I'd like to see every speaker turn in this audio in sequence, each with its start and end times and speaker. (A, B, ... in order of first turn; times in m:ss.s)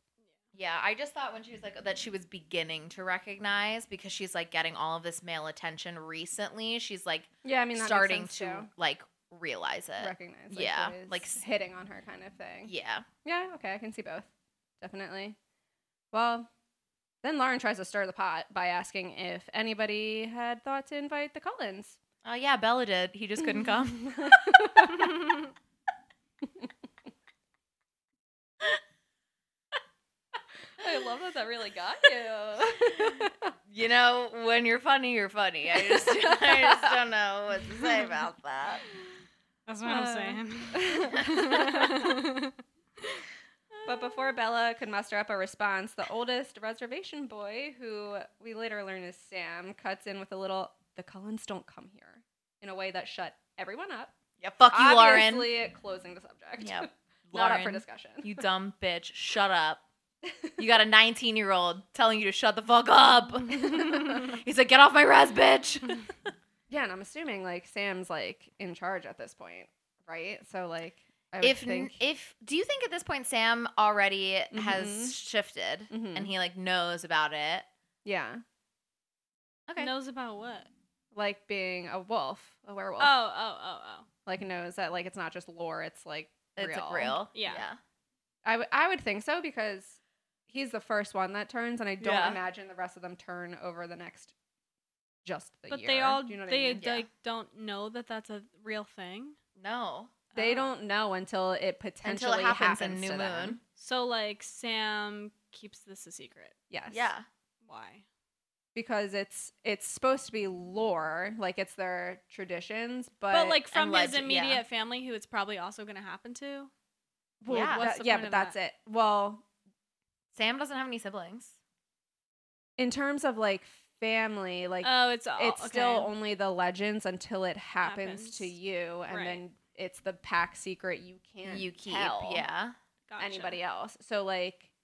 0:00.5-0:11.4 A
0:07.4-0:08.7 B
0:10.0-0:12.7 B
0:12.6-0:13.1 A
0:13.2-0:14.3 B
0:14.8-0:15.4 B
0:16.1-0:16.5 B
0:17.2-0:22.0 B
0:22.2-0:24.4 A
0:23.5-0:25.1 B
0:30.8-0:33.3 B
0:33.7-0:38.8 A
0:36.0-0:36.9 B
0:39.7-0:42.6 C
0:39.9-0:41.9 B
0:43.9-0:54.1 B
0:54.4-0:55.6 A
0:54.7-0:58.4 B
0:56.6-0:59.8 A
1:00.6-1:06.1 A
1:06.7-1:12.0 B
1:11.4-1:17.7 A
1:14.5-1:15.2 B
1:15.9-1:16.3 B
1:18.0-1:18.4 B
1:19.7-1:19.9 A
1:19.8-1:20.7 C
1:21.1-1:23.1 B
1:23.0-1:24.1 C
1:24.3-1:27.2 B
1:26.6-1:27.8 A
1:27.3-1:27.7 C
1:28.4-1:34.3 B
1:32.0-1:32.4 A
1:35.2-1:36.8 B
1:35.7-1:39.4 C
1:36.8-1:37.1 A
1:39.6-1:40.1 A
1:40.3-1:40.7 C
1:40.3-1:43.6 B
1:42.0-1:43.6 A
1:43.8-1:46.6 C
1:46.7-1:47.1 B
1:46.9-1:47.3 A
1:47.6-1:48.0 C
1:48.8-1:53.6 B
1:53.3-1:56.7 C
1:53.7-1:54.6 A
1:57.4-1:59.4 B
1:57.5-1:57.9 A
1:57.5-1:58.6 C
2:00.3-2:01.6 A
2:02.8-2:12.5 B
2:04.8-2:06.1 C
2:07.8-2:08.5 C
2:09.1-2:09.4 C
2:11.4-2:12.8 A
2:13.1-2:13.6 C
2:13.2-2:14.7 B